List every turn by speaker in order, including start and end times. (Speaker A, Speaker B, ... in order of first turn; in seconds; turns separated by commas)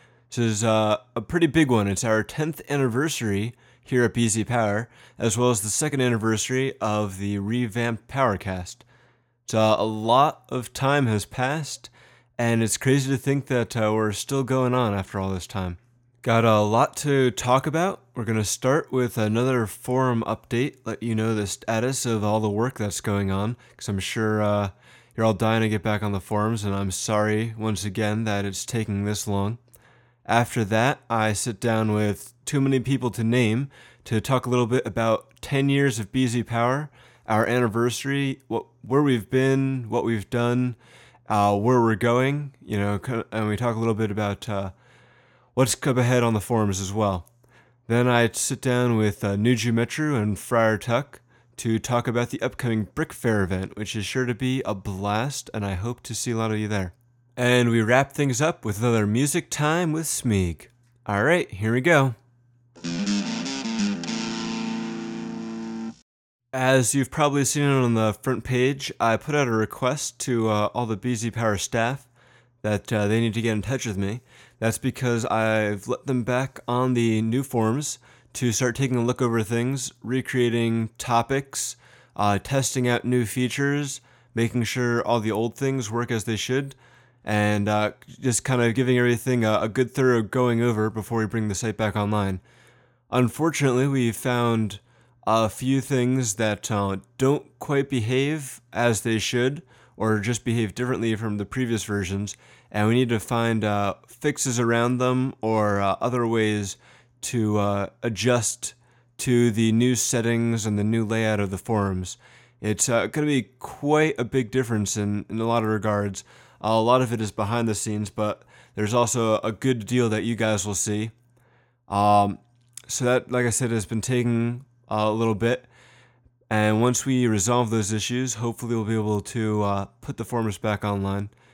Speaker A: 0.3-8.8, Speaker A: 9.5-29.6, Speaker A: 30.2-44.7, Speaker A: 45.5-47.2, Speaker A: 47.9-62.2, Speaker A: 66.5-72.1, Speaker A: 72.6-92.4, Speaker A: 93.1-121.1, Speaker A: 121.9-125.7, Speaker A: 126.5-131.3